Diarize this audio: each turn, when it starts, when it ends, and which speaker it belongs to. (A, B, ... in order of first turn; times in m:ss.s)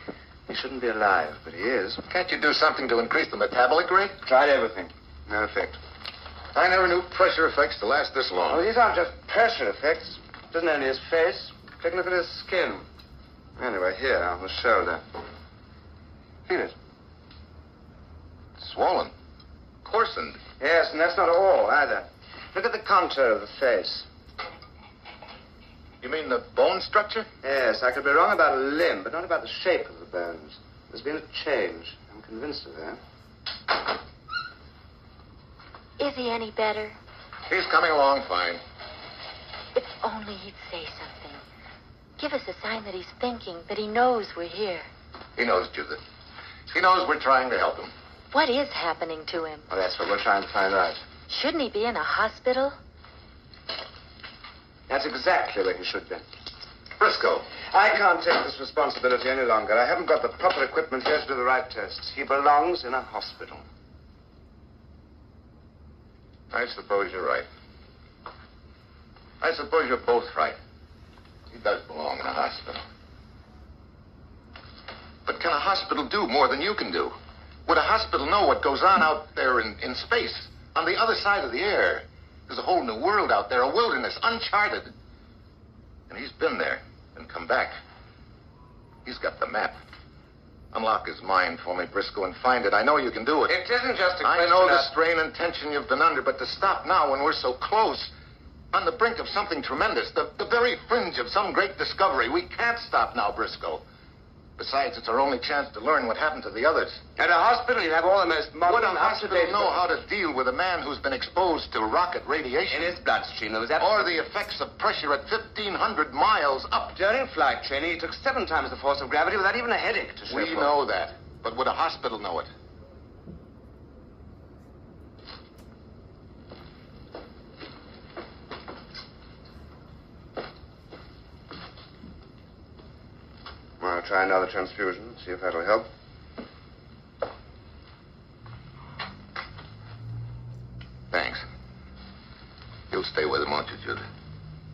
0:00.5-0:02.0 A
0:02.1-0:04.2 B
0:04.2-0:05.8 A
0:06.5-0:08.6 B
0:08.5-0:12.8 A
0:13.6-0:15.0 A
0:16.5-0:16.8 A
0:18.6-0:19.1 B
0:19.8-0:20.4 B
0:20.6-0:24.1 A
0:26.0-0:27.3 B
0:27.4-0:33.0 A
0:36.0-0:37.0 C
0:37.5-0:38.6 B
0:39.8-0:41.4 C
0:42.2-0:44.9 C
0:45.4-0:46.0 B
0:46.7-0:47.9 B
0:48.3-0:49.7 C
0:49.7-0:51.0 A
0:51.3-0:52.8 C
0:54.9-0:56.2 A
0:57.0-0:57.4 B
0:57.5-1:03.6 A
1:06.5-1:07.5 B
1:09.4-1:10.6 B
1:11.5-1:12.8 B
1:15.3-1:17.1 B
1:17.7-1:24.9 B
1:26.1-1:27.7 B
1:29.0-1:29.8 B
1:30.7-1:33.6 B
1:33.5-1:34.9 A
1:34.2-1:38.1 B
1:38.7-1:43.8 B
1:44.6-1:47.0 B
1:47.2-1:49.9 A
1:48.7-1:52.9 B
1:52.7-1:54.2 A
1:53.8-1:57.0 B
1:56.9-2:00.8 A
2:00.3-2:02.5 B
2:13.8-2:15.9 A
2:21.1-2:21.4 B
2:22.9-2:24.0 B